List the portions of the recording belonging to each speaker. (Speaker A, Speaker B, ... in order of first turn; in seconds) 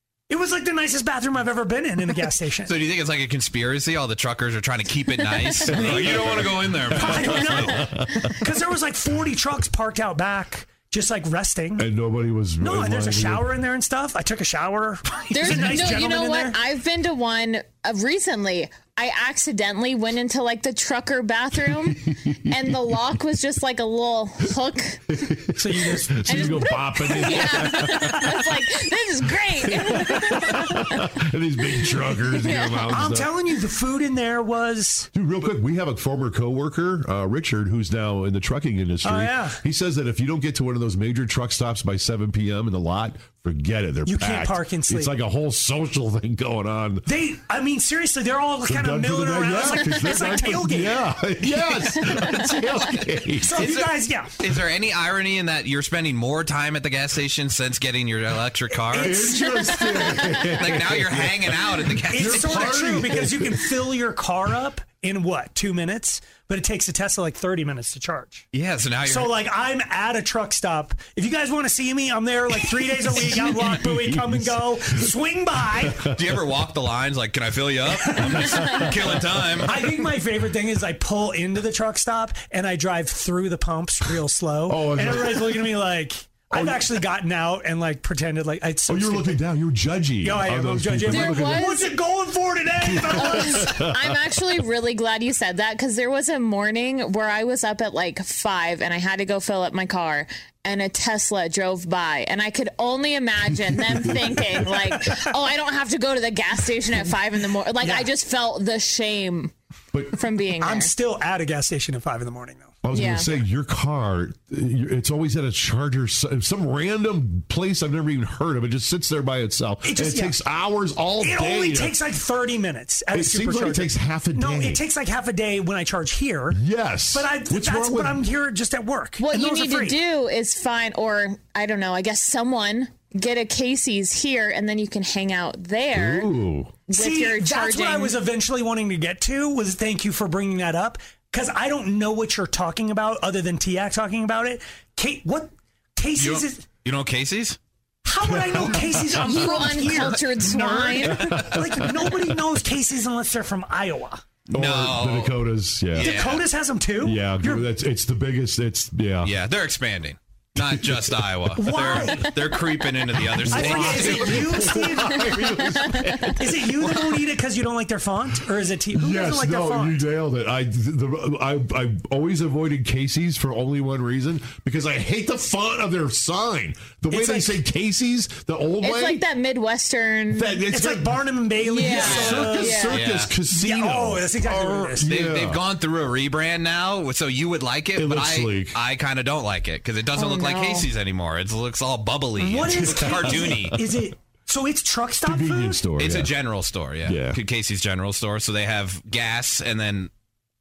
Speaker A: 0.3-2.7, 5.7-11.9, 12.6-16.6, 25.6-26.7, 27.6-27.9, 32.9-35.1, 39.0-39.6, 44.0-45.1, 47.0-51.0, 53.4-54.3, 62.1-68.5, 69.0-76.0, 77.9-78.4, 79.6-89.4, 90.2-93.7, 104.7-105.3, 107.8-108.1, 110.6-112.8, 119.8-120.3, 121.2-126.6, 127.1-130.0, 136.9-146.6, 148.1-154.2, 156.0-157.7, 161.6-162.3, 163.5-165.5, 166.4-170.0, 177.1-177.6, 180.7-182.9, 183.4-185.1, 192.4-195.9
Speaker B: 2.6-7.8, 53.5-59.3, 60.6-63.0, 68.5-69.4, 76.1-79.7, 146.2-147.6, 154.5-155.4, 155.9-156.4, 159.2-164.5, 182.9-183.3, 185.1-193.8, 196.0-200.1
Speaker C: 5.7-8.3, 11.8-13.5, 15.5-15.8, 21.7-22.9, 25.1-28.3, 29.6-33.3, 35.1-47.0, 48.7-53.7, 59.0-63.7, 73.1-75.1, 75.7-76.2, 78.4-79.8, 84.7-85.7, 86.5-86.9, 88.9-91.7, 92.8-94.2, 103.5-104.6, 112.8-122.0, 123.1-124.8, 126.5-128.2, 135.9-136.8, 148.2-149.2, 151.0-152.3, 154.5-156.2, 157.0-159.3, 160.6-161.1, 163.3-166.9, 168.9-179.2, 180.3-185.6, 187.9-188.8, 192.8-193.6, 195.3-196.3, 197.1-197.4
Speaker D: 15.3-25.0, 26.2-31.0, 32.3-33.0, 59.2-60.4, 91.0-91.9, 93.1-109.5, 110.1-110.9, 112.9-113.3, 129.2-136.3, 136.9-138.2, 149.2-151.3, 178.8-180.6, 181.6-183.0, 190.2-190.9